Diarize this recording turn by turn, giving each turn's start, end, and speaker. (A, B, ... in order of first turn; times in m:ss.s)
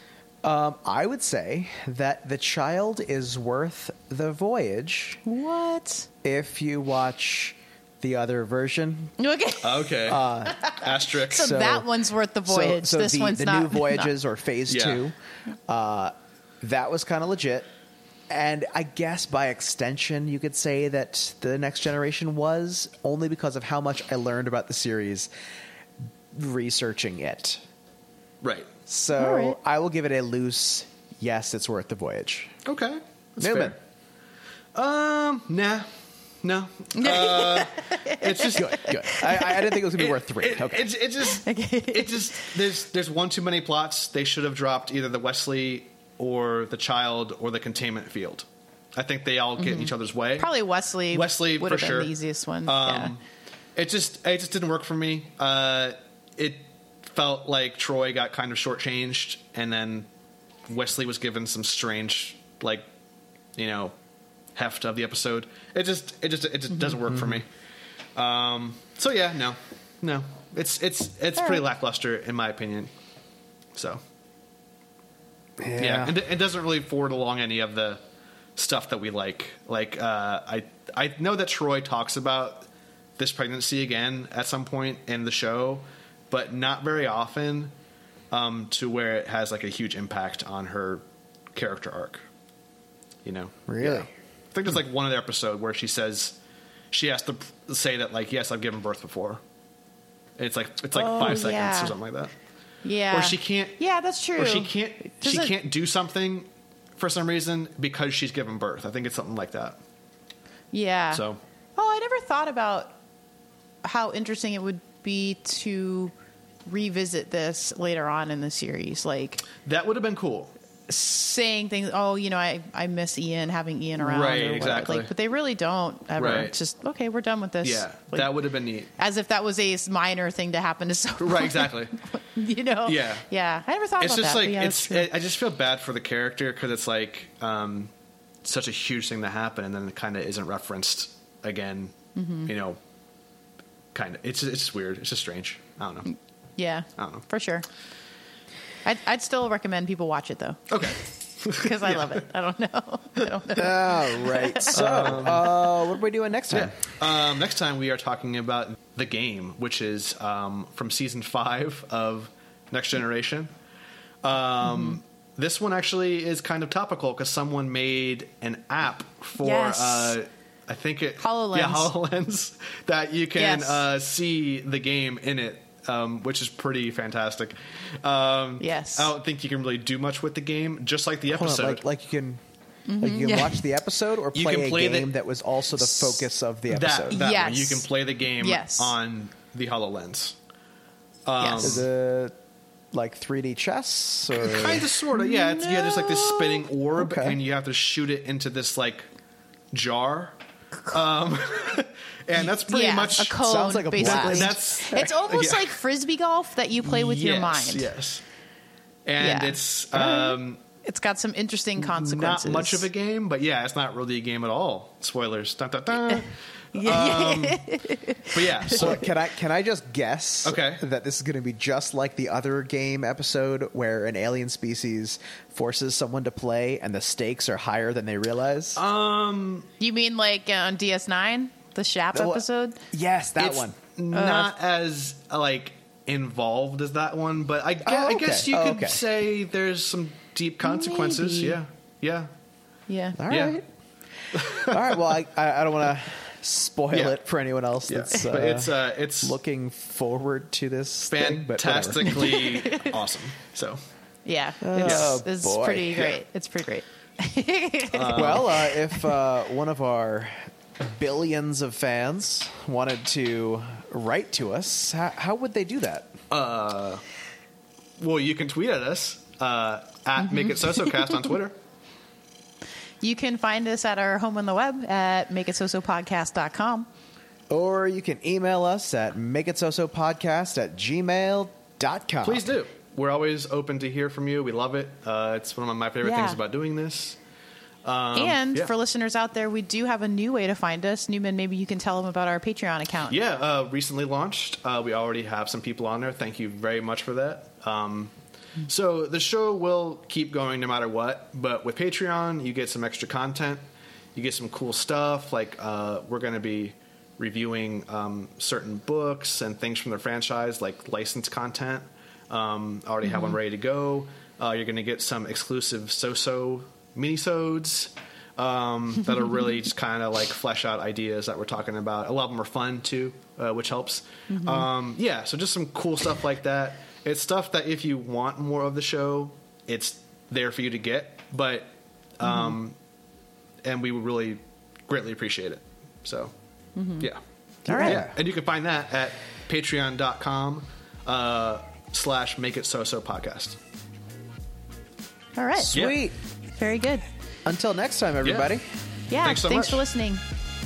0:00.4-0:05.2 A
0:05.2-0:06.1 B
0:06.2-0:09.1 A
0:09.2-0:09.9 B
0:09.6-0:11.6 C
0:10.0-0:10.6 A
0:10.5-0:14.1 B
0:11.3-0:11.9 A
0:12.5-0:15.1 A
0:14.7-0:15.0 C
0:15.7-0:17.7 A
0:18.3-0:25.3 A
0:26.3-0:27.6 A
0:28.4-0:28.7 C
0:28.9-0:32.5 A
0:29.2-0:29.6 B
0:32.6-0:33.8 C
0:33.4-0:33.8 A
0:34.7-0:35.9 C
0:36.4-0:39.0 C
0:37.0-0:39.8 B
0:38.6-0:40.9 A
0:40.0-0:50.5 C
0:41.2-0:42.5 B
0:49.6-0:53.1 B
0:51.1-0:52.1 C
0:52.6-0:53.2 C
0:53.8-1:00.1 C
1:00.7-1:02.8 C
1:03.6-1:03.9 C
1:04.5-1:07.4 C
1:08.2-1:12.9 C
1:13.7-1:14.0 C
1:15.6-1:16.2 A
1:15.8-1:18.0 C
1:18.6-1:27.7 C
1:28.3-1:31.0 C
1:31.5-1:32.2 C
1:33.2-1:36.4 C
1:33.7-1:34.1 A
1:36.9-1:39.4 C
1:40.4-1:42.3 C
1:41.0-1:42.0 B
1:41.0-1:41.4 A
1:42.8-1:45.5 B
1:43.1-1:43.8 C
1:44.4-1:49.8 C
1:50.7-1:51.2 B
1:51.1-1:51.4 C
1:51.8-1:53.0 B
1:53.8-1:56.1 B
1:56.6-1:59.4 B
1:59.6-2:00.5 C
2:00.9-2:08.3 B
2:04.0-2:05.1 C
2:06.2-2:06.5 C
2:07.6-2:08.9 C
2:09.0-2:15.1 B
2:11.2-2:12.0 C
2:12.8-2:13.2 C
2:14.0-2:17.9 C
2:18.4-2:21.9 C
2:22.2-2:22.5 B
2:22.4-2:22.8 C
2:23.9-2:26.1 C
2:26.6-2:27.6 B
2:27.0-2:27.2 C
2:28.8-2:35.3 B
2:30.7-2:32.2 C
2:33.6-2:36.7 A
2:34.7-2:35.5 C
2:36.5-2:43.5 C
2:44.2-3:01.8 C
2:44.6-2:45.0 B
2:49.4-2:50.2 B
2:51.2-2:51.9 B
2:53.4-2:53.8 B
2:58.6-2:59.1 B
3:01.3-3:02.4 A
3:02.9-3:03.7 B
3:03.0-3:07.2 A
3:04.3-3:05.1 C
3:06.7-3:10.4 C
3:07.1-3:07.8 B
3:08.4-3:08.9 B
3:11.2-3:11.8 C
3:11.4-3:11.8 B
3:11.6-3:12.3 A
3:12.9-3:14.9 A
3:14.3-3:19.1 C
3:15.1-3:16.6 B
3:17.0-3:17.4 A
3:19.7-3:20.4 C
3:20.9-3:23.4 C
3:22.4-3:27.9 B
3:23.3-3:25.0 A
3:24.0-3:25.8 C
3:26.8-3:28.2 C
3:29.0-3:30.6 C
3:29.2-3:32.9 B
3:31.8-3:37.6 C
3:36.7-3:38.9 B
3:38.2-3:39.1 C
3:38.7-3:48.8 A
3:40.4-3:40.8 C
3:48.8-3:49.7 C
3:49.8-3:52.8 B
3:52.1-3:53.8 A
3:53.4-4:02.3 C
3:54.1-3:54.5 B
3:57.8-3:59.0 A
4:00.6-4:01.6 B
4:02.9-4:03.2 B
4:03.2-4:03.6 A
4:03.3-4:03.6 C
4:04.3-4:12.1 A
4:04.3-4:05.0 C
4:06.9-4:07.2 C
4:07.9-4:09.4 C
4:11.1-4:13.8 C
4:12.0-4:12.9 B
4:14.2-4:19.1 B
4:14.6-4:16.1 A
4:14.8-4:15.2 C
4:17.9-4:18.6 C
4:18.1-4:26.2 A
4:26.3-4:27.0 C
4:28.0-4:31.6 C
4:30.2-4:31.3 B
4:33.0-4:36.9 B
4:37.5-4:42.5 A
4:42.2-4:47.2 C
4:46.0-4:46.4 B
4:47.8-4:48.7 C
4:48.1-4:53.2 B
4:53.1-4:58.1 C
4:58.7-5:03.6 C
5:04.1-5:32.7 C
5:13.0-5:13.4 B
5:24.3-5:24.7 B
5:32.2-5:32.6 B
5:33.6-5:36.3 C
5:36.8-5:37.1 B
5:37.6-5:38.0 B
5:37.7-5:38.2 A
5:37.7-5:43.6 C
5:45.4-5:45.8 B
5:45.6-5:46.2 A
5:45.7-5:46.0 C
5:46.5-5:47.0 B
5:47.4-5:48.6 A
5:48.2-5:48.5 C
5:49.1-5:50.2 B
5:49.2-5:49.8 C